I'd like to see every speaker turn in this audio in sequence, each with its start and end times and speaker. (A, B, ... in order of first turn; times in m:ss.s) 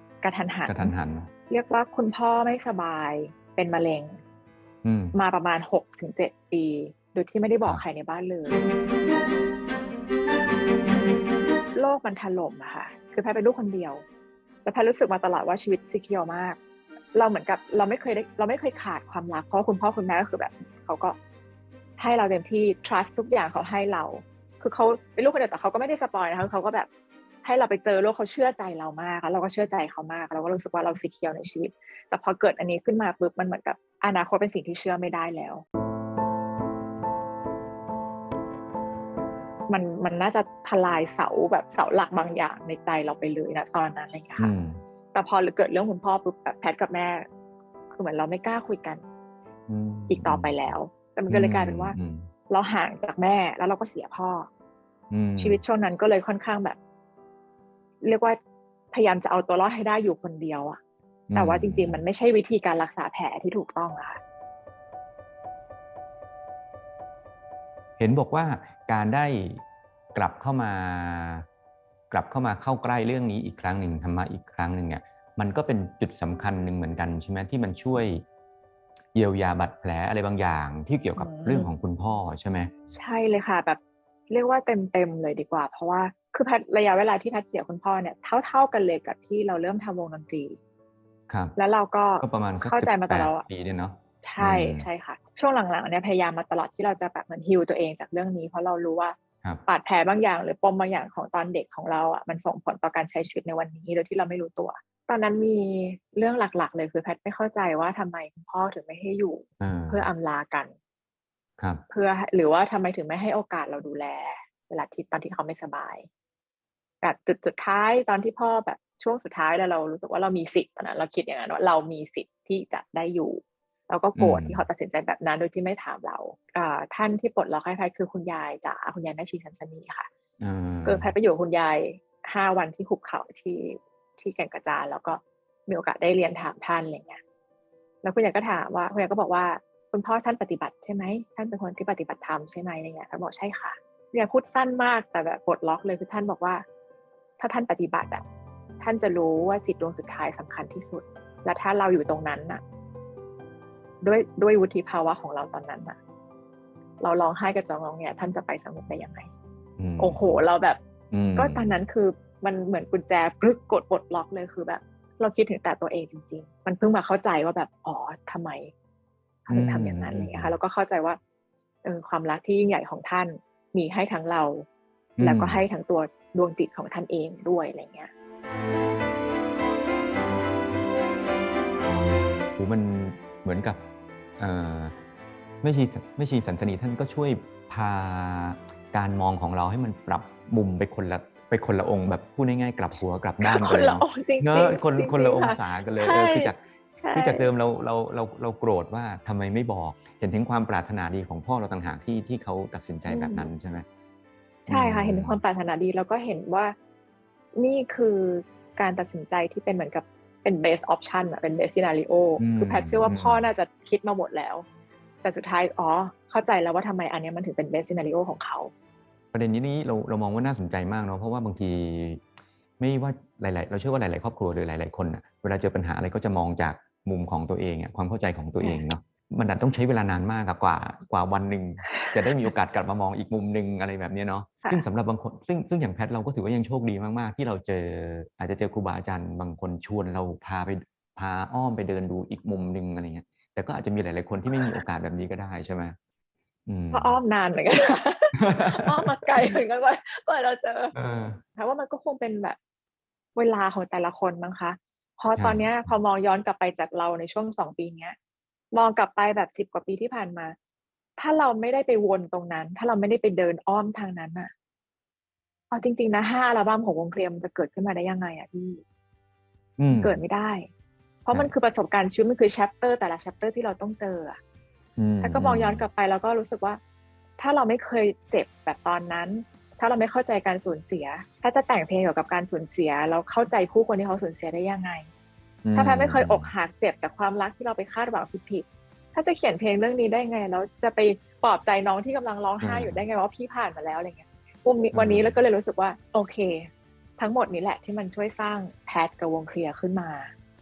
0:00.2-0:00.9 A
0:00.6-0:01.3 B
0:01.5-0:04.2 A
0:04.8-0:05.2 B
0:05.1-0:08.7 A
0:11.8-0:14.0 A
0:14.6-0:16.6 A
0:17.1-0:21.2 A
0:22.0-0:26.9 A
0:27.4-0:35.6 A
0:39.7-0:44.5 A
0:44.4-0:44.8 B
0:45.1-0:47.3 A
0:47.9-0:49.0 A
0:49.7-0:50.8 B
0:50.1-0:52.0 A
0:51.3-0:52.3 B
0:52.5-0:54.5 A
0:55.1-0:55.6 B
0:55.4-0:56.8 A
0:58.0-0:58.4 A
0:58.9-1:00.8 A
1:01.3-1:02.0 B
1:01.4-1:04.2 A
1:08.0-1:09.6 B
1:10.1-1:11.4 B
1:12.1-1:18.2 B
1:19.1-1:22.7 B
1:21.2-1:21.7 A
1:22.9-1:30.6 A
1:31.3-1:31.6 B
1:31.6-1:33.4 A
1:32.2-1:34.9 B
1:34.2-1:50.7 A
1:49.6-1:50.1 B
1:51.9-1:56.1 A
1:57.0-2:10.1 A
2:04.2-2:04.6 B
2:10.4-2:11.1 B
2:10.8-2:17.2 A
2:18.0-2:26.6 A
2:27.4-2:28.2 A
2:28.8-2:32.6 A
2:34.0-2:36.0 A
2:37.0-2:39.3 A
2:39.8-2:40.4 B
2:40.0-2:40.8 A
2:41.1-2:41.8 B
2:41.4-2:48.7 A
2:49.5-2:51.2 A
2:49.5-2:50.5 B
2:51.8-2:54.7 A
2:55.2-2:55.6 B
2:55.2-2:58.1 A
3:02.6-3:03.8 B
3:04.4-3:05.0 B
3:05.6-3:16.6 B
3:13.4-3:17.5 A
3:17.1-3:23.9 B
3:23.1-3:23.5 A
3:24.7-3:25.4 B
3:24.7-3:26.8 A
3:27.6-3:34.7 A
3:32.4-3:33.5 B
3:35.2-3:38.7 A
3:39.3-3:42.2 B
3:42.8-4:06.0 B
3:48.6-3:48.8 A
4:06.7-4:07.2 B
4:06.9-4:10.9 A
4:08.4-4:09.6 B
4:10.9-4:11.4 B
4:11.6-4:12.6 A
4:13.4-4:18.2 A
4:15.4-4:15.9 B
4:18.7-4:20.6 A
4:21.2-4:24.5 A
4:25.7-4:28.8 A
4:29.8-4:30.2 B
4:29.9-4:30.7 A
4:31.3-4:34.4 A
4:35.0-4:35.9 B
4:35.2-4:36.8 A
4:37.4-4:45.1 A
4:45.6-4:46.5 B
4:45.8-5:00.3 A
4:52.6-4:53.0 B
4:54.9-4:55.4 B